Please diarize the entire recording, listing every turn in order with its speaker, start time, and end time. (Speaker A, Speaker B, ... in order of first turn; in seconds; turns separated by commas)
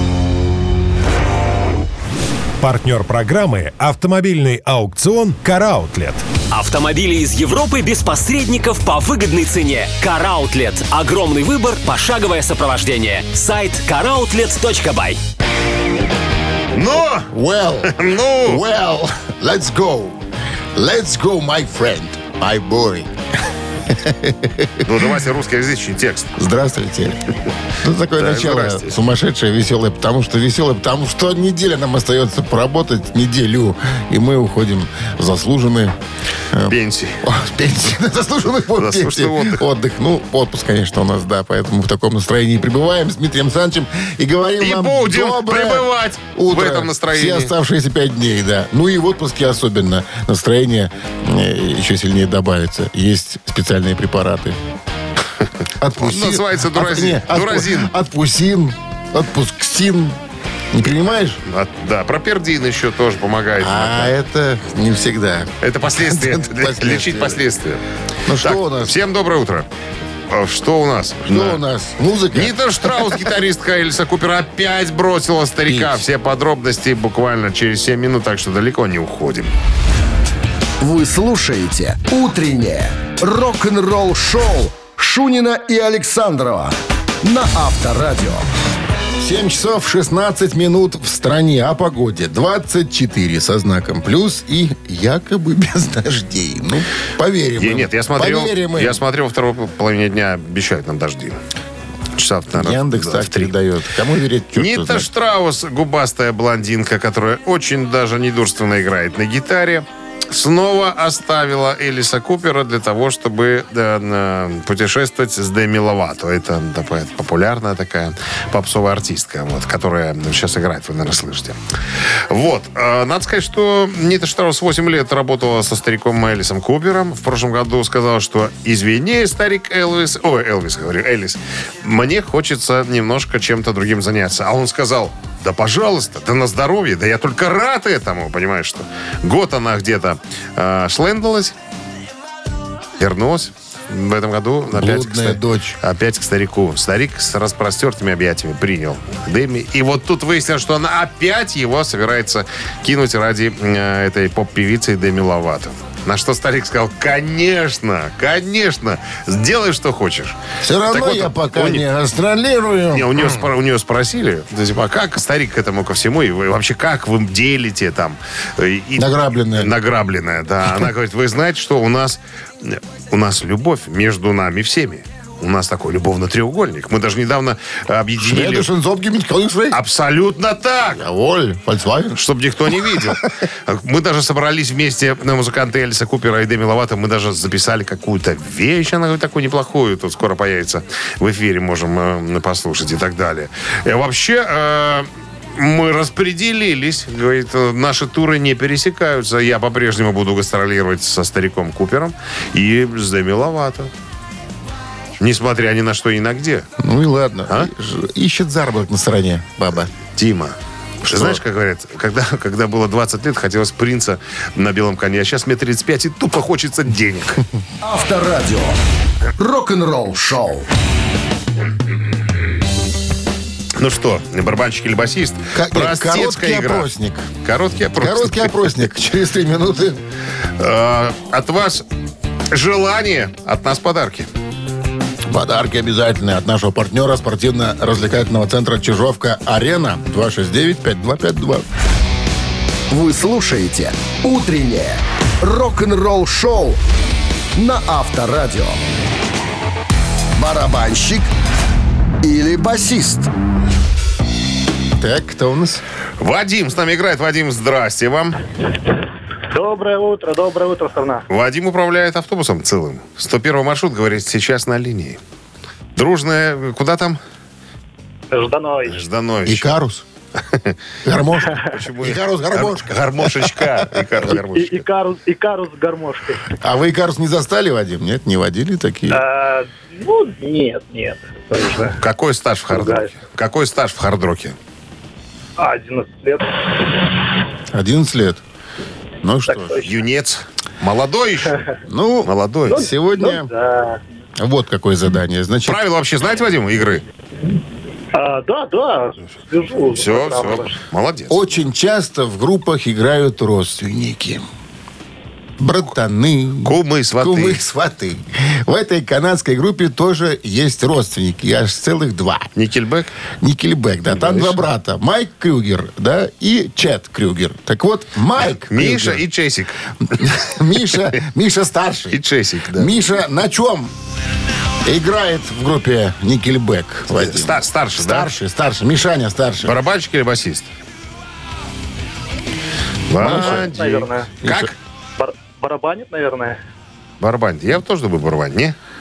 Speaker A: 2.6-6.2, Speaker B: 6.5-15.2, Speaker C: 16.7-17.3, Speaker D: 17.3-20.2, Speaker C: 17.9-18.6, Speaker D: 20.7-23.1, Speaker D: 23.9-24.9, Speaker C: 24.8-26.3, Speaker D: 26.4-27.2, Speaker D: 27.8-35.9, Speaker C: 28.2-28.9, Speaker D: 36.5-54.6, Speaker C: 36.7-37.2, Speaker C: 38.8-39.6, Speaker C: 44.6-47.5, Speaker D: 55.8-60.2, Speaker C: 56.0-57.9, Speaker D: 60.7-61.4, Speaker C: 61.5-64.1, Speaker D: 63.6-67.4, Speaker C: 65.6-69.7, Speaker D: 68.2-68.9, Speaker C: 70.3-71.6, Speaker D: 71.3-72.6, Speaker C: 72.3-79.5, Speaker D: 75.7-76.0, Speaker E: 80.8-88.5, Speaker D: 89.2-99.0, Speaker C: 97.6-101.4, Speaker C: 102.2-103.5, Speaker D: 102.5-105.1, Speaker C: 104.5-121.6, Speaker C: 122.3-141.5, Speaker C: 143.0-161.8, Speaker D: 144.7-145.8, Speaker D: 160.6-163.4, Speaker C: 162.9-178.7, Speaker D: 169.0-169.7, Speaker D: 178.2-179.8, Speaker C: 179.7-181.0, Speaker D: 180.9-182.2, Speaker C: 182.1-203.9, Speaker D: 182.7-183.2, Speaker C: 205.2-206.7, Speaker D: 206.8-209.9, Speaker C: 210.2-217.4, Speaker D: 211.1-211.4, Speaker E: 217.8-218.8, Speaker E: 219.4-220.7, Speaker C: 223.8-226.9, Speaker D: 225.5-227.3, Speaker C: 227.4-228.5, Speaker D: 228.0-230.0, Speaker C: 230.6-231.8, Speaker C: 232.5-234.3, Speaker D: 235.3-241.7, Speaker E: 242.9-246.8, Speaker E: 247.6-248.8, Speaker E: 250.3-251.3, Speaker E: 252.2-253.3, Speaker D: 255.0-255.8, Speaker C: 256.2-258.4, Speaker F: 259.5-261.2, Speaker C: 261.3-265.2, Speaker C: 265.9-267.2, Speaker F: 268.3-269.0, Speaker C: 268.8-269.7, Speaker D: 269.4-270.0, Speaker D: 271.0-273.9, Speaker C: 271.6-274.8, Speaker F: 274.5-276.4, Speaker D: 276.6-279.2, Speaker F: 279.1-282.0, Speaker C: 282.0-284.6, Speaker F: 282.7-283.1, Speaker F: 285.6-287.1, Speaker D: 287.7-288.4, Speaker D: 289.2-289.8, Speaker F: 289.5-289.9, Speaker C: 289.8-291.6, Speaker D: 291.9-293.5, Speaker C: 292.2-292.9, Speaker F: 292.7-294.0, Speaker D: 294.4-295.8, Speaker C: 295.7-297.0, Speaker F: 298.1-300.8, Speaker C: 299.9-301.4, Speaker D: 301.3-304.4, Speaker D: 305.6-312.5, Speaker C: 306.6-307.6, Speaker C: 312.6-313.1, Speaker D: 313.4-319.2, Speaker C: 314.1-314.6, Speaker C: 318.6-320.4, Speaker D: 320.2-322.2, Speaker C: 322.1-322.9, Speaker D: 322.7-323.9, Speaker D: 324.8-329.8, Speaker C: 327.1-328.3, Speaker C: 329.6-330.7, Speaker C: 333.1-334.7, Speaker D: 333.1-333.7, Speaker F: 333.2-334.3, Speaker D: 334.4-334.7, Speaker F: 335.2-336.6, Speaker C: 337.2-338.8